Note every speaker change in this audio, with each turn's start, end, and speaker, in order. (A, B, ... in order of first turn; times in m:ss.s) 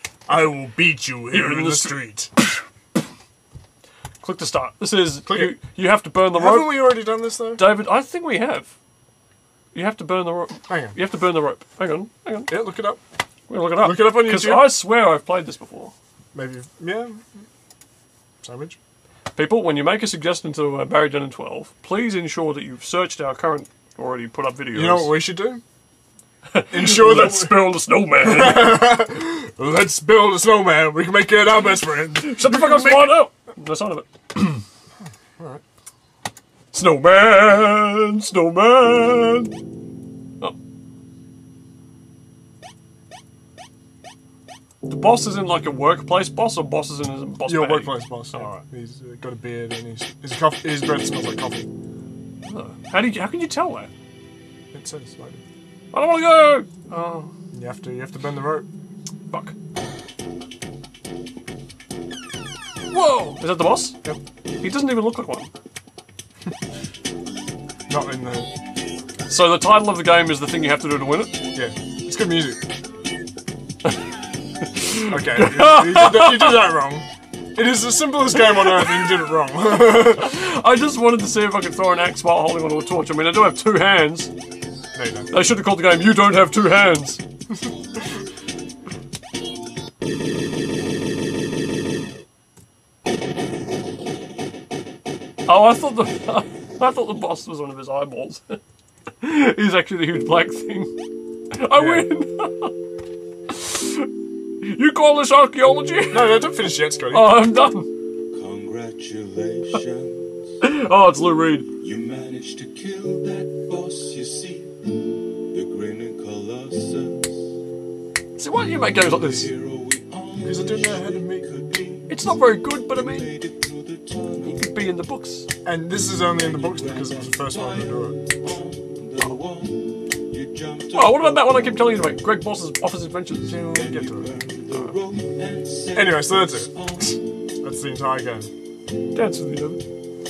0:00.3-0:02.3 A
0:01.3-0:02.0 B
0:04.2-0:07.0 B
0:05.3-0:05.6 A
0:06.3-0:07.7 A
0:07.6-0:08.7 B
0:09.7-0:12.6 B
0:10.7-0:11.0 A
0:12.5-0:13.0 A
0:13.5-0:15.9 B
0:13.8-0:14.8 A
0:16.3-0:17.2 A
0:18.4-0:18.8 A
0:19.4-0:25.2 B
0:24.7-0:25.6 A
0:26.5-0:28.8 B
0:26.7-0:27.7 A
0:28.2-0:33.2 A
0:32.2-0:34.6 B
0:36.7-0:39.6 B
0:44.8-0:48.6 B
0:47.4-0:51.7 A
0:52.4-0:53.9 B
0:54.7-0:55.4 A
0:55.9-0:57.3 B
0:57.5-0:58.7 A
0:59.3-0:59.6 B
1:02.9-1:04.0 B
1:04.6-1:05.5 B
1:07.9-1:08.5 A
1:09.3-1:11.4 B
1:11.5-1:12.6 A
1:14.7-1:16.7 B
1:15.1-1:20.4 A
1:18.4-1:24.3 B
1:25.0-1:25.3 A
1:25.3-1:27.2 B
1:35.5-1:38.6 B
1:39.2-1:40.9 B
1:41.5-1:42.7 B
1:41.7-1:42.1 A
1:43.5-1:44.1 B
1:44.6-1:47.9 B
1:46.1-1:47.5 A
1:48.3-1:50.4 C
1:50.6-1:51.7 B
1:51.8-1:57.5 C
1:58.4-1:59.5 B
1:59.0-2:04.5 C
2:00.4-2:01.6 A
2:02.1-2:03.4 B
2:04.4-2:05.5 B
2:05.6-2:08.2 A
2:06.3-2:11.9 C
2:10.9-2:13.6 B
2:13.4-2:14.4 A
2:13.7-2:17.2 C
2:14.7-2:15.0 B
2:15.9-2:18.5 A
2:19.1-2:19.8 B